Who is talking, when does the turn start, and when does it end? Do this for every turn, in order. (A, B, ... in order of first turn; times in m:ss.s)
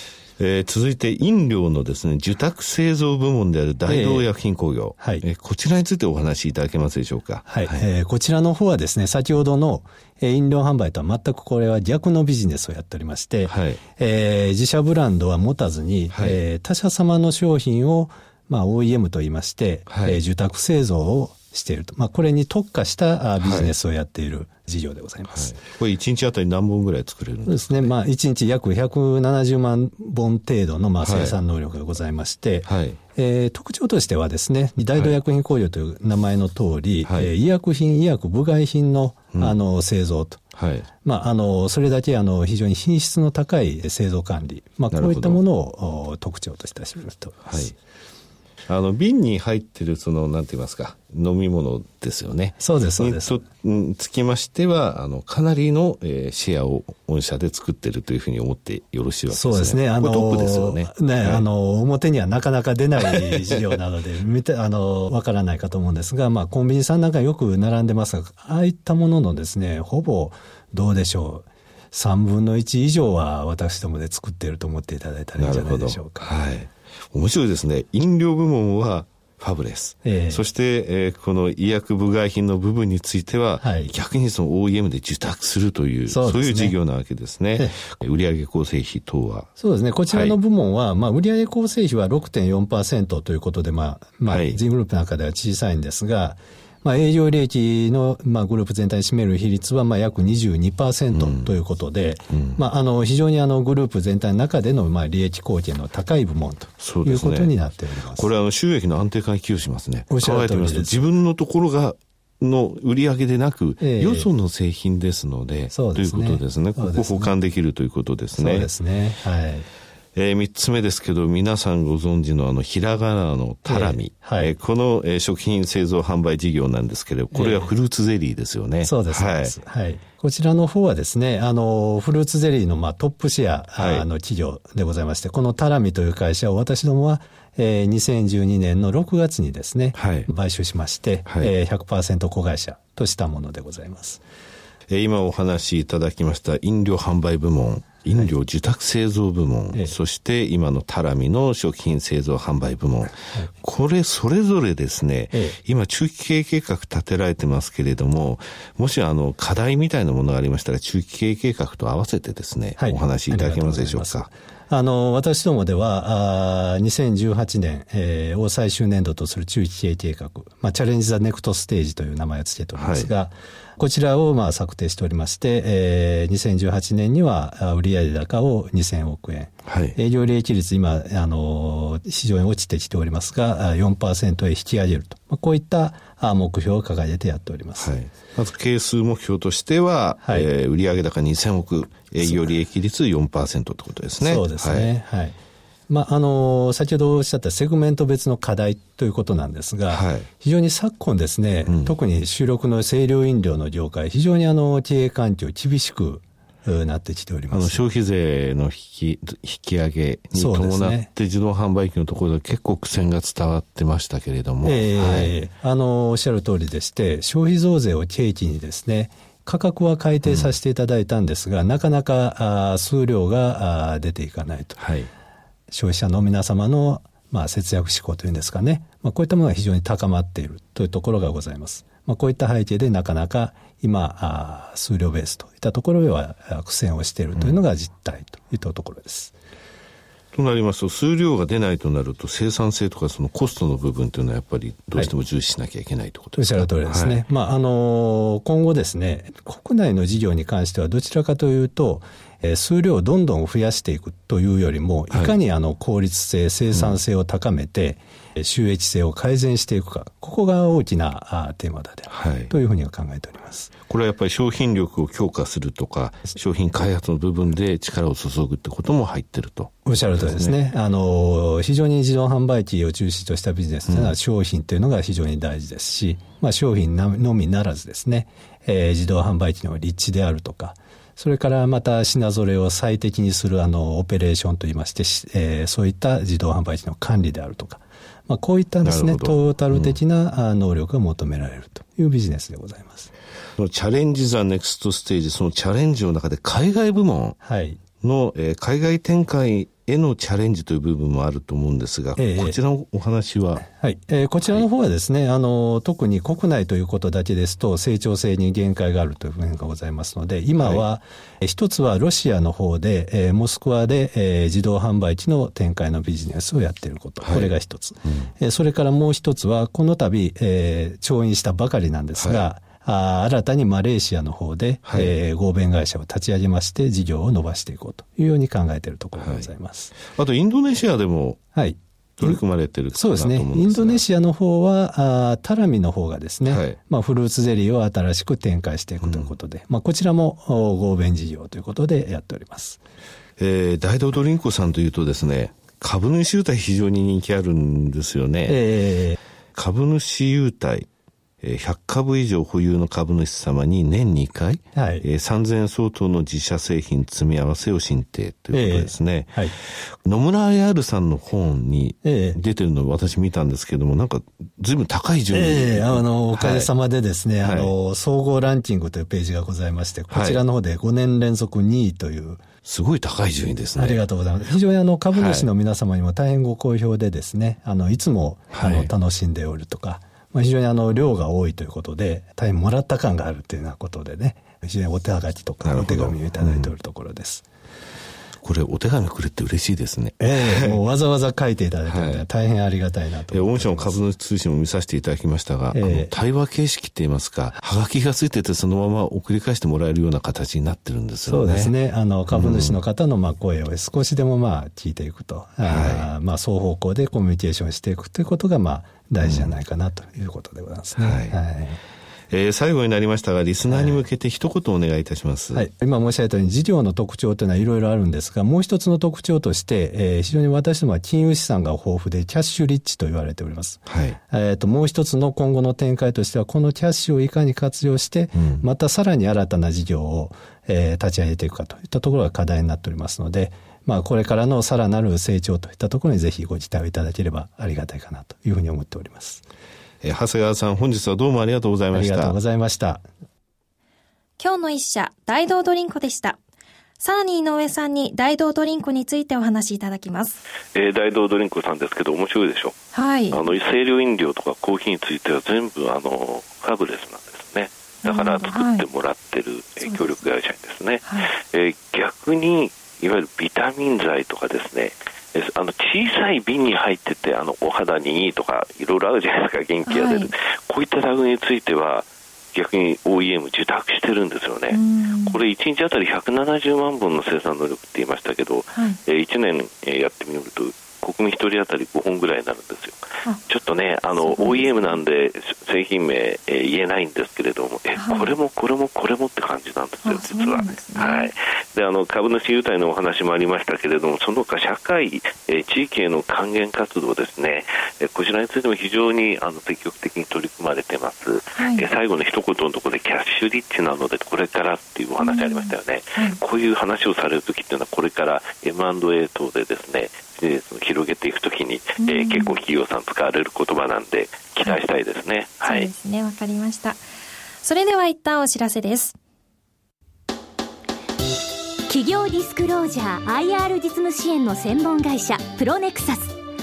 0:00.4-0:07.8 A
0:03.9-0:04.3 B
0:05.0-0:05.2 B
0:07.4-0:25.6 B
0:13.4-0:13.8 A
0:16.1-0:16.4 A
0:19.9-0:20.2 A
0:23.4-0:23.7 A
0:25.3-0:27.9 A
0:27.4-0:40.4 B
0:31.0-0:31.4 A
0:32.6-0:33.0 A
0:37.0-0:37.3 A
0:40.6-0:40.9 A
0:41.0-0:47.6 B
0:44.9-0:45.4 A
0:47.4-0:47.7 A
0:48.7-1:01.4 A
0:52.6-0:53.4 B
0:59.3-1:16.3 B
1:03.0-1:03.6 A
1:15.4-1:29.5 A
1:20.0-1:20.4 B
1:23.6-1:23.9 B
1:26.1-1:26.8 B
1:29.6-1:48.3 B
1:30.1-1:30.4 A
1:34.3-1:34.6 A
1:41.1-1:41.5 A
1:42.3-1:42.6 A
1:46.8-1:47.5 A
1:48.1-1:58.7 A
1:50.1-1:51.1 B
1:53.8-1:54.3 B
1:55.7-1:57.3 B
1:58.3-1:59.7 B
2:00.1-2:09.5 A
2:03.6-2:04.5 B
2:07.3-2:07.7 B
2:08.8-2:24.2 B
2:13.8-2:14.0 A
2:19.9-2:20.3 A
2:21.2-2:21.5 A
2:24.9-2:44.3 A
2:33.2-2:33.5 B
2:35.3-2:35.6 B
2:42.8-3:07.9 B
2:52.7-2:53.1 A
2:59.6-3:00.0 A
3:07.8-3:14.9 A
3:12.2-3:12.5 B
3:14.2-3:15.4 B
3:15.9-3:27.8 B
3:19.9-3:20.3 A
3:21.6-3:22.0 A
3:27.5-3:35.3 A
3:30.3-3:31.1 B
3:34.6-3:44.8 B
3:40.2-3:40.6 A
3:44.8-3:45.1 A
3:45.7-3:59.3 B
4:00.3-4:07.2 A
4:06.4-4:23.7 B
4:15.1-4:15.4 A
4:16.7-4:17.0 A
4:22.1-4:22.5 A
4:23.9-4:30.6 A
4:29.8-4:53.1 B
4:33.9-4:34.2 A
4:48.8-4:50.0 A
4:53.6-4:57.4 A
4:57.4-4:57.8 B
4:58.0-5:03.6 A
5:02.2-5:02.6 B
5:03.6-5:30.0 B
5:04.4-5:04.7 A
5:10.6-5:10.8 A
5:17.2-5:17.5 A
5:22.2-5:22.5 A
5:24.8-5:25.1 A
5:29.2-5:31.4 A
5:31.5-5:32.4 B
5:32.2-5:34.0 A
5:32.9-5:42.8 B
5:36.4-5:36.8 A
5:39.0-5:39.3 A
5:43.4-5:48.6 A
5:48.5-5:49.2 B
5:49.5-5:50.9 A
5:51.4-6:06.7 A
5:54.7-5:55.0 B
5:58.5-5:59.5 B
6:02.0-6:02.4 B
6:05.3-6:12.4 B
6:07.4-6:07.7 A
6:10.1-6:10.4 A
6:12.6-6:14.0 A
6:13.7-6:27.4 B
6:15.1-6:15.5 A
6:18.5-6:18.9 A
6:25.6-6:26.7 A
6:28.4-6:30.8 A
6:30.2-6:34.0 B
6:31.8-6:32.2 A
6:33.3-6:41.7 A
6:35.7-6:36.1 B
6:41.2-6:51.8 B
6:42.3-6:42.8 A
6:45.6-6:46.1 A
6:49.2-6:49.6 A
6:51.0-6:51.4 A
6:52.3-6:55.7 A
6:53.7-6:54.1 B
6:55.5-7:19.4 B
7:03.9-7:04.2 A
7:08.3-7:08.6 A
7:20.0-7:22.4 A
7:21.9-7:23.0 B
7:24.4-7:26.4 C
7:27.0-7:30.4 C
7:30.7-7:32.8 D
7:32.9-7:33.4 C
7:33.3-8:35.9 D
7:38.0-7:38.8 C
7:39.8-7:40.2 C
7:41.0-7:41.3 C
7:49.8-7:50.3 C
7:54.7-7:55.4 C
8:04.1-8:05.0 C
8:07.9-8:08.3 C
8:10.0-8:11.3 C
8:21.6-8:21.8 C
8:25.2-8:26.4 C
8:32.0-8:32.6 C
8:35.6-8:37.0 C
8:37.6-8:39.2 C
8:41.9-8:46.3 E